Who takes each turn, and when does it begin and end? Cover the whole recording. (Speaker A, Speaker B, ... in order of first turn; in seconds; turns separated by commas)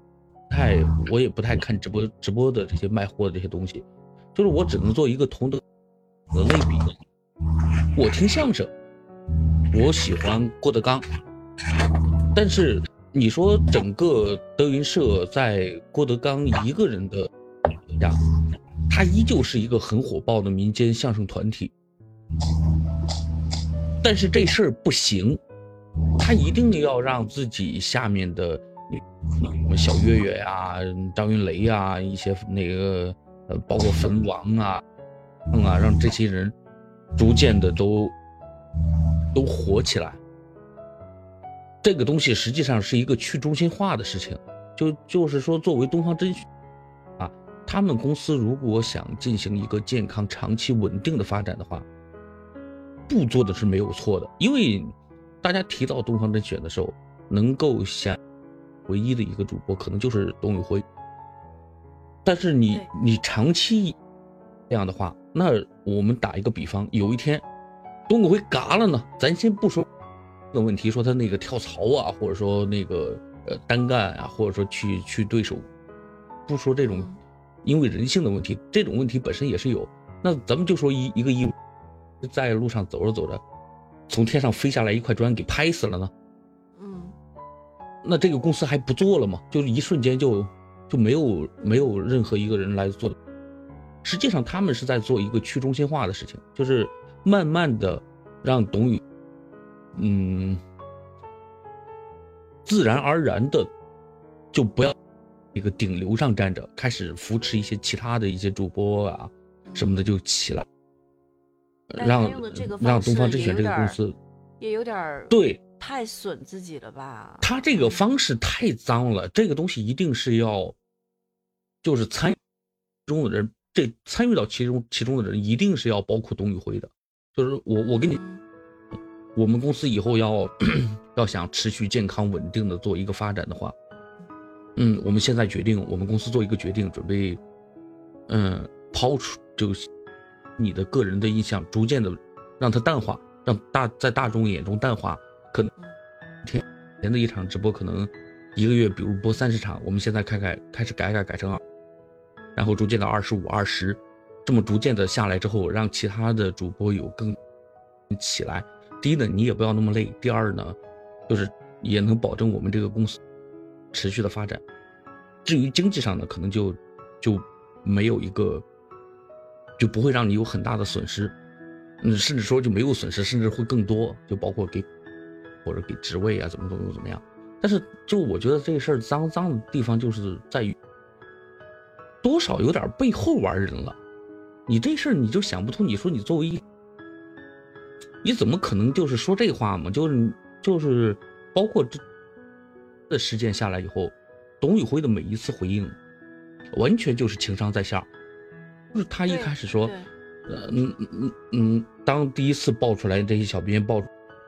Speaker A: 0.5-5.6, Speaker A: 6.3-6.9, Speaker A: 8.0-8.7, Speaker A: 9.7-11.0, Speaker A: 12.3-17.3, Speaker A: 18.9-21.7, Speaker A: 24.0-25.4, Speaker A: 26.2-34.8, Speaker A: 35.5-36.5, Speaker A: 37.2-38.1, Speaker A: 39.3-40.2, Speaker A: 41.8-46.5, Speaker A: 47.2-51.9, Speaker A: 53.1-58.2, Speaker A: 58.9-60.8, Speaker A: 62.2-64.0, Speaker A: 64.7-67.4, Speaker A: 68.1-69.9, Speaker A: 70.5-75.7, Speaker A: 76.5-77.1, Speaker B: 76.9-77.2, Speaker A: 77.7-81.5, Speaker A: 82.2-83.4, Speaker A: 84.1-86.1, Speaker B: 86.8-87.2, Speaker A: 88.0-93.2, Speaker A: 94.0-99.0, Speaker A: 100.0-100.6, Speaker A: 102.7-103.7, Speaker A: 104.5-104.9, Speaker A: 105.5-110.7, Speaker B: 109.7-110.0, Speaker A: 111.9-114.2, Speaker B: 112.0-114.0, Speaker B: 114.6-118.1, Speaker A: 115.3-115.6, Speaker A: 117.4-120.8, Speaker A: 121.8-122.4, Speaker A: 123.1-128.2, Speaker B: 128.1-128.4, Speaker A: 129.4-133.8, Speaker A: 134.8-137.4, Speaker A: 138.3-139.9, Speaker A: 140.6-145.7, Speaker A: 146.4-151.6, Speaker A: 152.6-157.4, Speaker A: 158.1-160.8, Speaker A: 161.3-163.2, Speaker A: 163.9-164.6, Speaker A: 165.4-168.7, Speaker A: 169.8-171.3, Speaker A: 172.0-174.9, Speaker A: 175.7-180.8, Speaker A: 182.2-184.0, Speaker A: 184.7-186.6, Speaker A: 188.2-192.0, Speaker A: 193.1-196.0, Speaker A: 196.7-198.1, Speaker A: 198.9-199.9, Speaker B: 199.3-200.1, Speaker A: 200.5-204.1